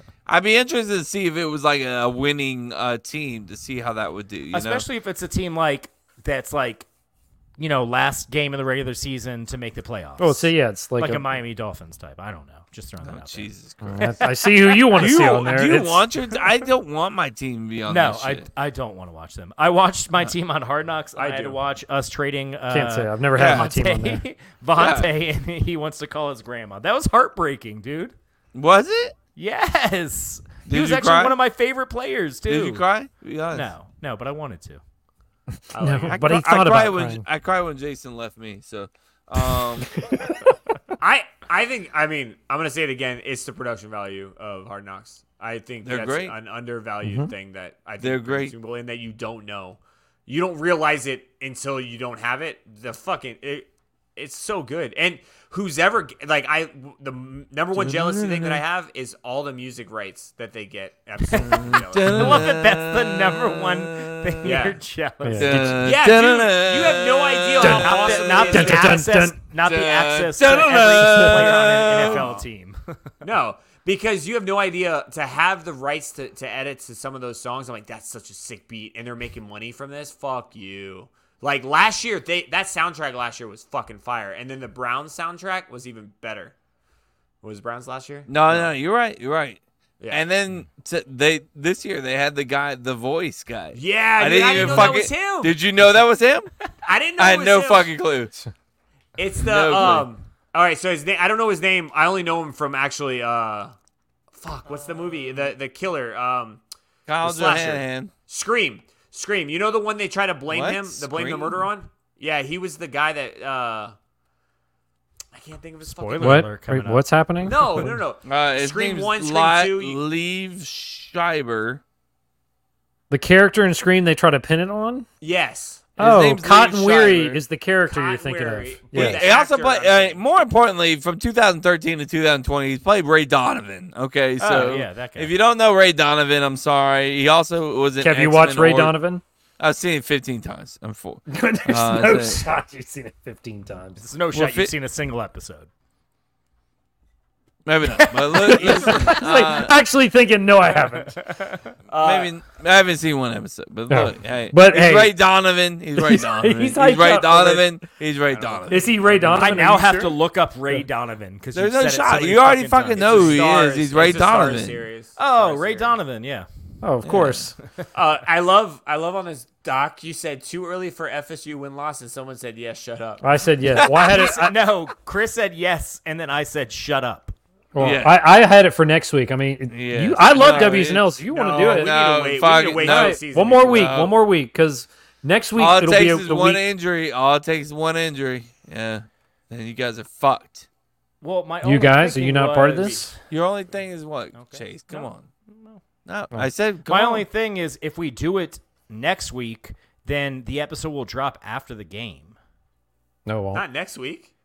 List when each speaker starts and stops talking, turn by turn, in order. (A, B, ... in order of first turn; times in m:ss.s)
0:00.3-0:04.8 A
0:04.5-0:06.9 B
0:07.6-0:13.5 B
0:10.2-0:11.3 C
0:13.0-0:14.3 A
0:13.8-0:16.0 C
0:14.9-0:18.5 A
0:17.8-0:28.1 B
0:21.1-0:21.6 D
0:22.7-0:24.2 C
0:23.3-0:23.7 A
0:24.8-0:25.1 A
0:28.5-0:29.1 A
0:29.4-0:32.8 B
0:30.6-0:31.4 A
0:32.5-0:33.7 A
0:33.5-0:34.8 B
0:35.7-0:36.3 D
0:35.7-0:37.2 C
0:36.1-0:39.9 A
0:41.0-1:02.4 D
0:45.8-0:46.3 A
0:47.0-0:47.3 C
0:48.0-0:48.5 A
0:57.7-0:58.6 A
1:01.3-1:04.5 A
1:02.0-1:05.8 B
1:04.4-1:04.8 D
1:05.2-1:05.8 C
1:05.4-1:08.6 A
1:05.8-1:09.0 D
1:07.6-1:09.4 C
1:07.6-1:13.1 B
1:09.6-1:12.2 A
1:11.5-1:12.4 D
1:13.2-1:26.5 D
1:27.4-1:28.7 D
1:28.3-1:36.5 A
1:33.7-1:35.6 D
1:36.8-1:37.9 D
1:37.2-1:38.4 A
1:39.2-1:43.7 D
1:39.4-1:40.1 A
1:44.4-1:46.6 D
1:47.1-1:48.1 A
1:47.2-1:53.9 D
1:50.5-1:51.7 A
1:55.3-1:56.5 D
1:55.9-1:57.0 B
1:56.2-1:58.0 C
1:57.4-2:00.0 D
1:58.2-2:01.8 A
2:03.1-2:05.1 C
2:05.2-2:05.9 D
2:06.0-2:09.2 C
2:06.0-2:07.4 A
2:07.9-2:10.2 D
2:08.9-2:19.0 A
2:14.4-2:15.3 B
2:18.0-2:19.2 C
2:19.6-2:22.4 A
2:21.3-2:24.0 C
2:24.0-2:25.7 B
2:24.3-2:24.7 A
2:27.6-2:29.8 A
2:28.0-2:28.9 B
2:28.3-2:31.3 C
2:31.2-2:31.6 B
2:31.9-2:32.3 D
2:31.9-2:39.4 A
2:33.9-2:35.1 C
2:36.0-2:37.7 C
2:38.3-2:39.9 D
2:38.7-2:40.1 C
2:39.3-2:43.4 B
2:41.5-2:44.8 A
2:43.0-2:46.0 D
2:45.2-2:46.5 B
2:46.8-2:47.5 C
2:47.0-2:47.5 A
2:47.9-2:53.2 D
2:53.2-2:54.6 C
2:53.7-2:54.3 A
2:54.0-2:57.3 B
2:57.7-3:01.9 C
2:57.8-2:58.2 A
2:59.7-3:04.1 A
3:00.4-3:03.9 D
3:02.8-3:06.6 C
3:05.6-3:10.7 A
3:11.2-3:13.1 B
3:11.6-3:13.1 C
3:13.3-3:15.3 A
3:14.3-3:15.8 B
3:16.0-3:17.3 A
3:16.8-3:22.4 B
3:23.2-3:23.6 C
3:23.5-3:24.3 D